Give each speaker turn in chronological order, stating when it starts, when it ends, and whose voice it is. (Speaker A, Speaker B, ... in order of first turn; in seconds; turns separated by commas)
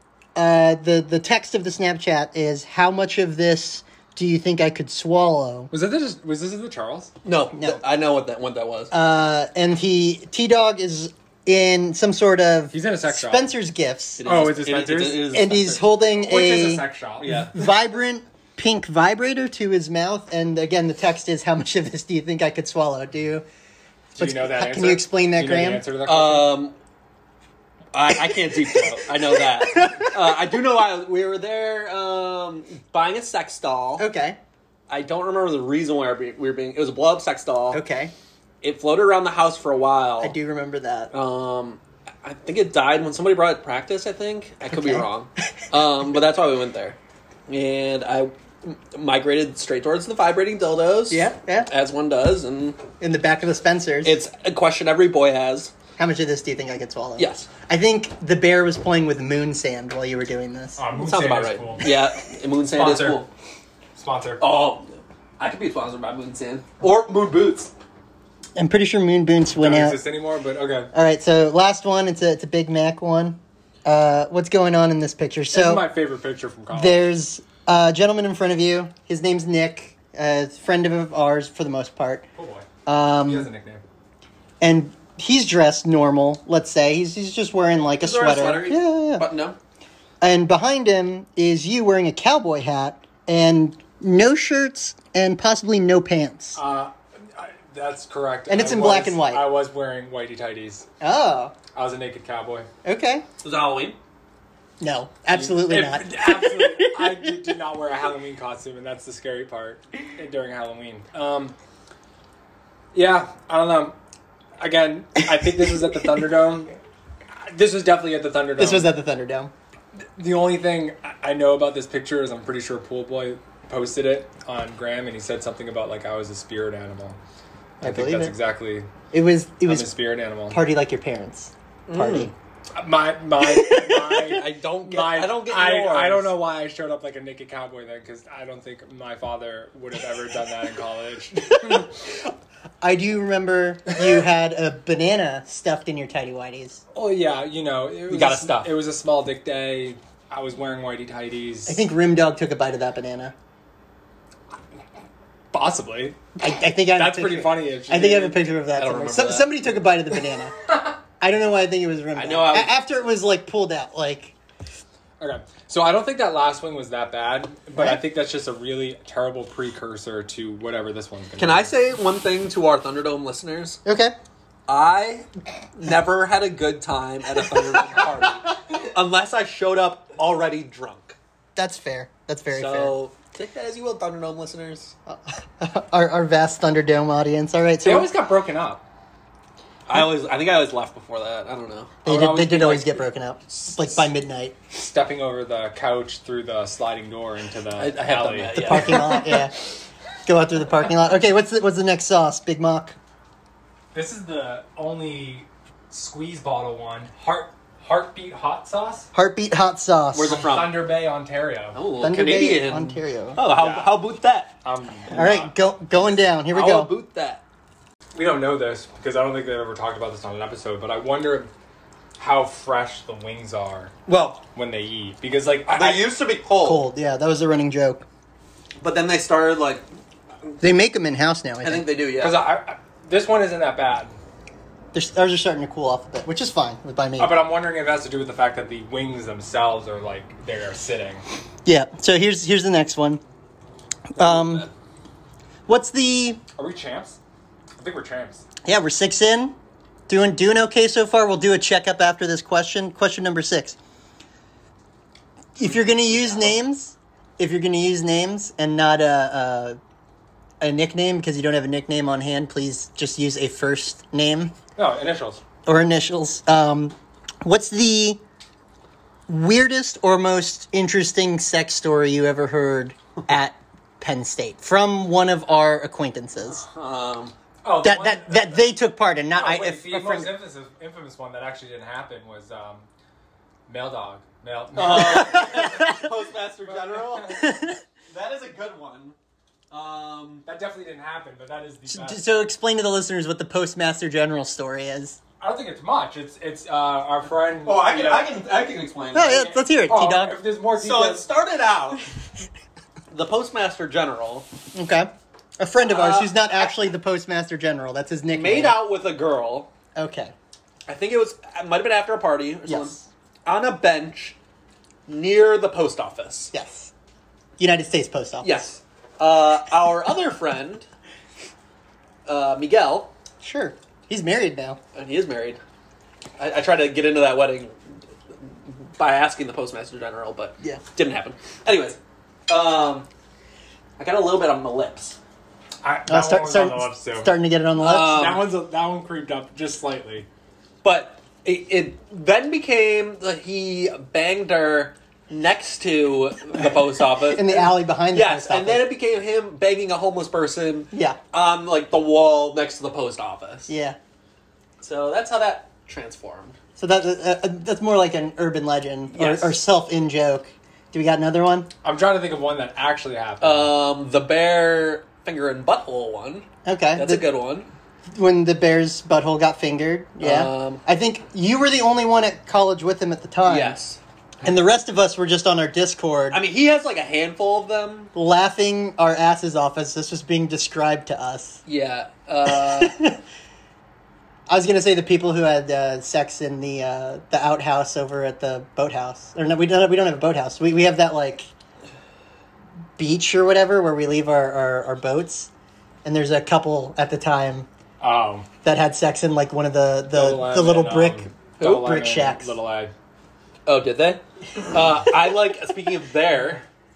Speaker A: 0.3-5.7, Speaker B: 5.7-7.1, Speaker C: 7.2-8.9, Speaker A: 8.9-14.2, Speaker B: 12.7-13.5, Speaker C: 14.2-16.0, Speaker B: 14.2-15.3, Speaker A: 15.3-16.9, Speaker B: 16.1-17.5, Speaker C: 17.2-17.5, Speaker A: 17.5-23.4, Speaker B: 24.1-26.6, Speaker A: 24.2-25.8, Speaker C: 26.0-26.7, Speaker C: 27.9-34.1, Speaker A: 29.6-30.1, Speaker A: 34.0-34.4, Speaker C: 34.9-37.8, Speaker A: 37.7-38.1, Speaker C: 38.6-40.4, Speaker A: 40.2-41.1, Speaker C: 41.1-47.0, Speaker A: 44.6-45.0, Speaker C: 47.5-52.9, Speaker A: 51.1-51.7, Speaker A: 53.0-54.2, Speaker C: 54.0-55.7, Speaker A: 56.0-60.8, Speaker C: 57.2-57.5, Speaker B: 60.8-61.9, Speaker C: 61.0-63.3, Speaker B: 62.7-63.2, Speaker B: 64.0-64.4, Speaker C: 64.4-67.7, Speaker A: 68.5-70.0, Speaker B: 69.5-70.9, Speaker A: 70.9-75.9, Speaker B: 75.5-77.1, Speaker A: 76.7-82.3, Speaker B: 82.3-82.7, Speaker A: 82.8-83.5, Speaker B: 83.2-83.8, Speaker A: 84.6-89.2, Speaker C: 88.0-89.6, Speaker A: 90.2-96.6, Speaker B: 96.5-100.9, Speaker A: 98.5-99.5, Speaker A: 101.0-101.5, Speaker B: 101.7-102.7, Speaker A: 102.8-103.2, Speaker C: 103.4-104.0, Speaker A: 104.8-107.2, Speaker B: 105.3-111.5, Speaker B: 112.9-114.0, Speaker B: 114.6-116.7, Speaker B: 117.4-118.9, Speaker A: 118.6-119.5, Speaker B: 120.2-127.2, Speaker B: 127.8-128.9, Speaker A: 127.8-128.3, Speaker A: 129.1-129.9, Speaker B: 129.6-130.6, Speaker A: 130.5-132.3, Speaker C: 131.9-132.3, Speaker B: 132.7-141.8, Speaker A: 133.4-134.3, Speaker C: 134.2-136.3, Speaker A: 141.6-142.3, Speaker A: 142.8-146.8, Speaker B: 146.9-151.8, Speaker C: 148.1-148.7, Speaker A: 151.7-153.3, Speaker B: 155.5-156.2, Speaker A: 156.4-164.3, Speaker B: 156.9-158.4, Speaker C: 158.7-159.6, Speaker C: 162.1-162.7, Speaker B: 165.2-171.7, Speaker C: 171.4-173.8, Speaker A: 173.8-174.2, Speaker C: 174.7-181.2, Speaker A: 181.6-182.9, Speaker C: 182.5-184.9, Speaker A: 185.1-188.1, Speaker B: 187.8-188.8, Speaker C: 189.9-192.0, Speaker B: 192.0-194.1, Speaker A: 192.0-194.6, Speaker B: 194.7-199.0, Speaker C: 197.8-199.4, Speaker A: 198.5-199.7, Speaker A: 200.2-203.0, Speaker B: 203.9-209.1, Speaker A: 209.1-210.4, Speaker C: 210.1-210.8, Speaker B: 210.2-211.8, Speaker C: 211.7-214.5, Speaker A: 212.0-213.4, Speaker B: 213.4-214.0, Speaker B: 214.6-215.7, Speaker A: 215.1-216.9, Speaker C: 216.5-217.4, Speaker B: 218.1-221.5, Speaker B: 222.2-223.9, Speaker A: 224.1-224.4, Speaker B: 224.5-226.1, Speaker C: 225.7-226.8, Speaker A: 226.6-228.0, Speaker C: 228.8-229.8, Speaker C: 230.4-230.7, Speaker A: 230.6-231.9, Speaker C: 231.6-232.4, Speaker B: 232.2-234.2, Speaker A: 234.9-237.3, Speaker B: 237.2-241.2, Speaker A: 241.6-243.2, Speaker A: 244.2-244.7, Speaker C: 244.2-244.7, Speaker A: 245.7-246.4, Speaker B: 246.6-247.2, Speaker B: 247.8-248.4, Speaker A: 248.6-249.5, Speaker A: 250.1-253.8, Speaker A: 255.6-259.8, Speaker C: 255.8-256.5, Speaker A: 260.6-264.5, Speaker B: 264.8-265.4, Speaker A: 265.6-268.2, Speaker A: 269.3-276.7, Speaker C: 276.5-277.3, Speaker B: 277.6-278.6, Speaker A: 277.8-280.3, Speaker B: 279.4-282.9, Speaker B: 283.7-285.7, Speaker C: 284.8-287.5, Speaker A: 284.9-286.1, Speaker B: 286.7-287.4, Speaker A: 287.4-287.8, Speaker C: 288.1-289.1, Speaker C: 289.7-290.4, Speaker B: 290.4-292.3, Speaker A: 291.9-295.2, Speaker B: 295.4-298.3, Speaker C: 297.6-299.5, Speaker A: 299.1-300.4, Speaker B: 299.4-301.2, Speaker C: 300.8-302.1, Speaker C: 303.1-304.5, Speaker A: 304.7-308.8, Speaker C: 305.9-306.8, Speaker C: 308.3-309.7, Speaker A: 309.9-310.3, Speaker C: 310.9-314.4, Speaker A: 312.7-313.0, Speaker C: 315.1-316.5, Speaker A: 316.5-316.9, Speaker A: 317.6-318.6, Speaker C: 318.4-320.9, Speaker C: 322.2-323.1, Speaker A: 323.4-324.8, Speaker C: 324.9-325.6, Speaker C: 326.4-327.7, Speaker C: 328.7-333.1, Speaker C: 334.0-335.2, Speaker B: 335.8-340.3, Speaker A: 336.1-338.4, Speaker C: 337.8-338.4, Speaker C: 340.8-353.7, Speaker A: 347.2-348.9, Speaker A: 350.9-351.2, Speaker A: 353.7-354.0, Speaker C: 354.8-356.6, Speaker A: 356.8-361.7, Speaker C: 359.1-359.6, Speaker B: 361.8-363.7, Speaker C: 363.4-367.7, Speaker A: 366.6-367.2, Speaker A: 368.1-373.8, Speaker C: 370.2-370.8, Speaker C: 373.4-374.0, Speaker A: 374.4-376.4, Speaker C: 376.3-378.1, Speaker A: 378.1-381.6, Speaker C: 381.7-382.9, Speaker A: 382.5-383.2, Speaker A: 384.5-391.5, Speaker A: 393.0-395.5, Speaker A: 396.0-397.7, Speaker B: 398.0-398.5, Speaker A: 398.6-402.5, Speaker B: 400.1-402.9, Speaker C: 403.6-406.6